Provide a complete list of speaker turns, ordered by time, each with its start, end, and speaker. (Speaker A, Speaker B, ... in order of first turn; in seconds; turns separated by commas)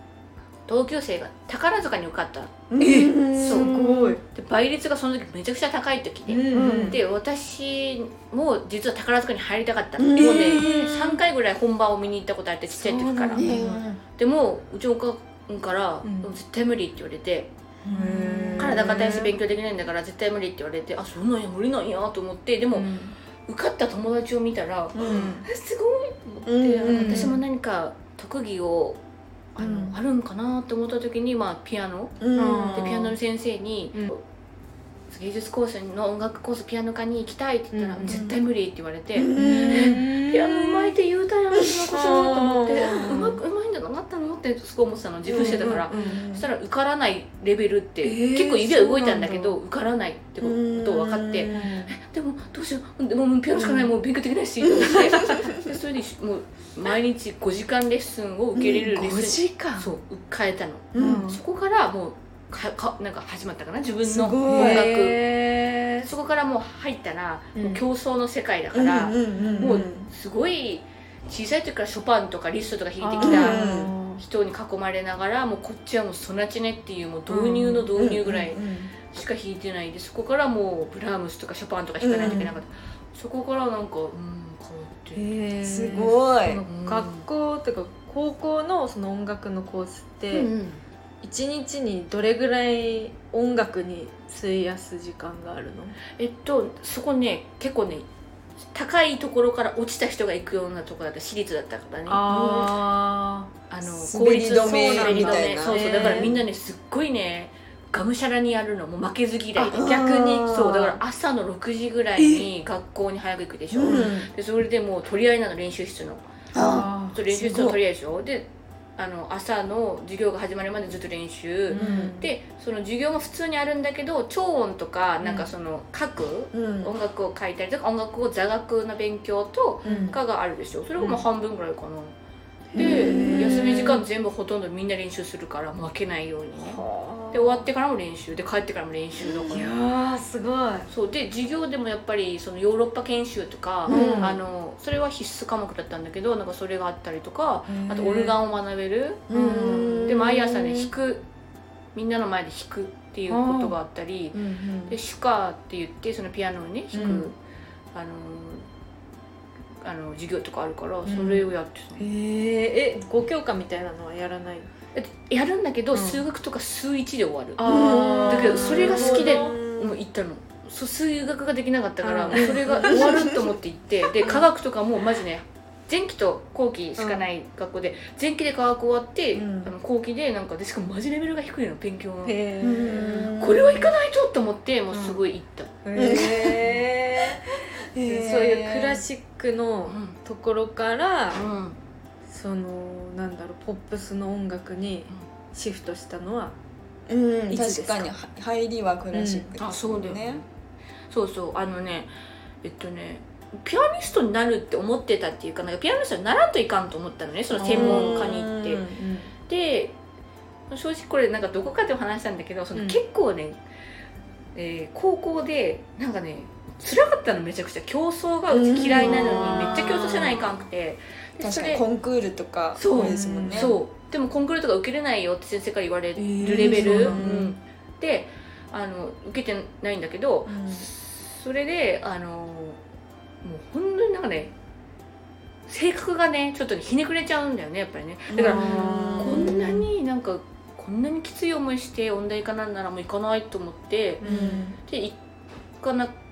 Speaker A: 0.7-2.6, Speaker B: 2.7-4.2, Speaker C: 2.8-4.2, Speaker A: 3.4-3.7, Speaker A: 4.2-13.5, Speaker C: 6.3-7.0, Speaker B: 6.5-7.0, Speaker B: 10.0-11.2, Speaker C: 10.2-10.9, Speaker C: 12.7-13.8, Speaker B: 13.3-14.0, Speaker A: 14.2-17.5, Speaker C: 16.0-16.4, Speaker C: 17.8-19.4, Speaker B: 17.9-19.2, Speaker A: 18.6-22.9, Speaker C: 22.7-23.1, Speaker A: 23.5-29.0, Speaker B: 24.9-25.4, Speaker C: 25.0-25.4, Speaker B: 26.4-27.4, Speaker C: 26.9-27.4, Speaker A: 29.5-32.2, Speaker B: 29.6-29.9, Speaker C: 29.6-29.9, Speaker B: 32.2-33.1, Speaker C: 32.3-33.0, Speaker A: 32.7-34.2, Speaker A: 35.1-65.2, Speaker C: 37.7-38.2, Speaker B: 38.0-38.4, Speaker B: 39.1-40.0, Speaker C: 39.4-40.9, Speaker C: 41.9-43.4, Speaker B: 43.0-43.3, Speaker B: 45.2-46.5, Speaker C: 45.3-46.2, Speaker C: 48.0-49.6, Speaker B: 50.4-51.7, Speaker C: 51.5-51.9, Speaker B: 53.6-53.9, Speaker B: 54.7-55.7, Speaker B: 58.5-59.8, Speaker C: 58.9-59.9, Speaker B: 60.9-61.2, Speaker C: 61.0-61.4, Speaker B: 64.0-64.9, Speaker C: 64.4-66.1, Speaker A: 66.0-85.2, Speaker C: 67.5-67.8, Speaker B: 68.7-70.1, Speaker C: 69.4-69.9, Speaker C: 73.0-74.2, Speaker B: 73.2-73.9, Speaker C: 77.3-77.9, Speaker B: 77.9-78.9, Speaker B: 82.0-82.5, Speaker C: 82.2-82.5, Speaker C: 85.1-90.5, Speaker B: 85.6-86.6, Speaker A: 86.7-87.3, Speaker A: 90.3-90.8, Speaker C: 91.2-96.0, Speaker A: 96.2-98.1, Speaker A: 98.7-102.2, Speaker C: 102.1-103.5, Speaker B: 102.3-102.8, Speaker A: 103.7-116.2, Speaker B: 103.8-106.4, Speaker C: 104.5-106.4, Speaker C: 109.5-111.0, Speaker B: 109.7-110.8, Speaker C: 112.2-112.4, Speaker B: 113.7-114.3, Speaker C: 113.8-114.1, Speaker B: 116.5-117.8, Speaker C: 116.5-117.7, Speaker A: 117.1-132.1, Speaker C: 121.7-122.3, Speaker B: 121.7-122.1, Speaker C: 125.2-125.5, Speaker B: 126.5-126.9, Speaker C: 129.8-130.2, Speaker C: 131.0-131.2, Speaker C: 132.7-134.0, Speaker A: 132.8-139.7, Speaker B: 132.8-133.9, Speaker C: 136.6-137.6, Speaker B: 139.2-139.6, Speaker C: 139.5-140.9, Speaker A: 140.9-151.2, Speaker C: 143.9-144.4, Speaker B: 143.9-144.4, Speaker B: 147.7-148.3, Speaker C: 149.3-150.2, Speaker B: 149.3-150.8, Speaker A: 151.9-157.3, Speaker C: 153.3-153.8, Speaker B: 154.3-155.0, Speaker C: 156.9-157.3, Speaker A: 157.9-158.7, Speaker A: 159.8-162.0, Speaker C: 161.1-161.5, Speaker C: 162.0-164.7, Speaker A: 164.9-167.7, Speaker C: 165.9-166.2, Speaker C: 167.6-169.9, Speaker B: 167.6-169.5, Speaker A: 168.2-185.8, Speaker C: 172.0-173.3, Speaker B: 172.3-173.5, Speaker C: 177.0-177.2, Speaker B: 179.3-179.7, Speaker C: 182.2-183.4, Speaker B: 182.6-183.9, Speaker C: 184.9-185.2, Speaker C: 185.8-191.4, Speaker B: 185.9-186.8, Speaker B: 187.5-189.0, Speaker A: 189.8-190.2, Speaker A: 191.3-191.8, Speaker C: 192.3-196.6, Speaker B: 197.1-200.4, Speaker C: 197.5-198.1, Speaker C: 199.1-199.5, Speaker A: 199.6-200.4, Speaker A: 201.1-202.1, Speaker A: 202.6-208.8, Speaker C: 207.5-208.4, Speaker B: 207.6-209.0, Speaker C: 208.9-209.3, Speaker A: 209.5-210.0, Speaker A: 210.7-213.6, Speaker C: 212.7-213.0, Speaker A: 214.5-221.8, Speaker B: 218.5-220.4, Speaker C: 218.9-220.4, Speaker B: 221.4-223.8, Speaker A: 222.8-232.8, Speaker C: 222.9-223.8, Speaker C: 226.2-227.5, Speaker B: 226.4-227.5, Speaker B: 230.4-230.9, Speaker A: 233.4-234.5, Speaker A: 235.7-244.3, Speaker B: 238.3-239.8, Speaker C: 238.3-239.8, Speaker C: 244.2-244.7, Speaker B: 244.2-244.8, Speaker A: 244.8-245.2, Speaker A: 245.8-246.1